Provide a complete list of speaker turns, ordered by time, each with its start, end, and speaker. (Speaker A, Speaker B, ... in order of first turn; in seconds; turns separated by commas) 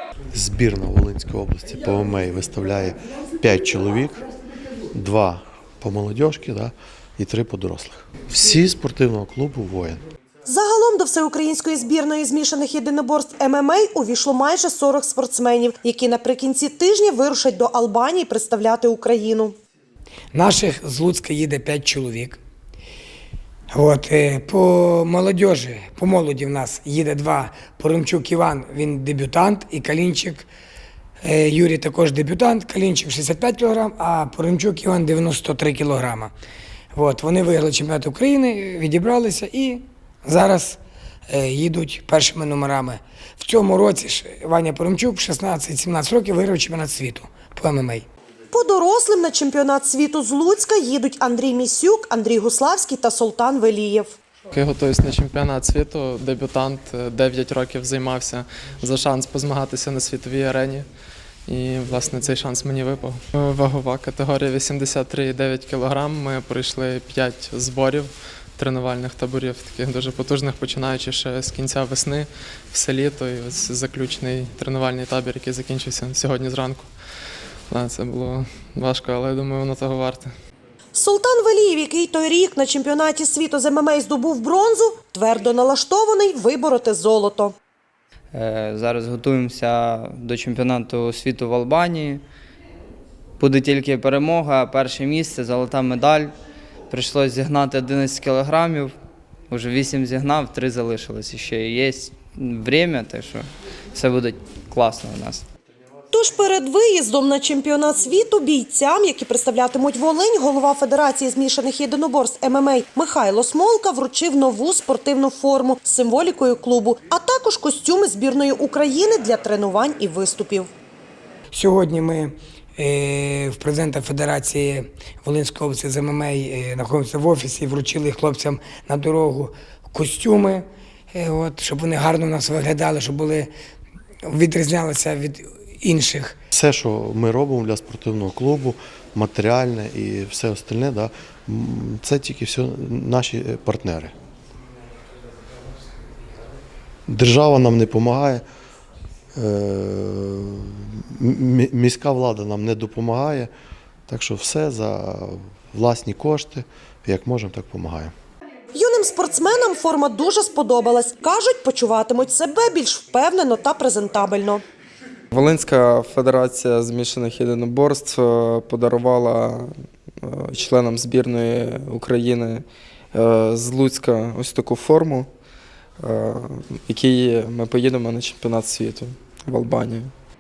Speaker A: 0.3-4.2, Speaker A: 4.9-10.0, Speaker B: 10.4-19.6, Speaker C: 20.3-22.4, Speaker C: 23.7-30.5, Speaker C: 31.2-36.3, Speaker C: 36.9-48.1, Speaker B: 48.5-54.1, Speaker D: 54.5-60.9, Speaker D: 61.5-76.9, Speaker D: 77.7-80.3, Speaker B: 80.9-87.5, Speaker E: 88.3-92.2, Speaker E: 93.4-96.3, Speaker E: 96.9-99.0, Speaker E: 99.5-105.5, Speaker B: 106.1-120.7, Speaker C: 121.5-133.5, Speaker C: 134.3-136.4, Speaker A: 136.5-144.1, Speaker A: 147.1-148.4, Speaker A: 149.3-153.5, Speaker A: 154.1-158.1, Speaker B: 158.7-164.6, Speaker F: 165.3-169.7, Speaker F: 170.2-172.6, Speaker F: 173.1-175.3, Speaker F: 176.0-180.1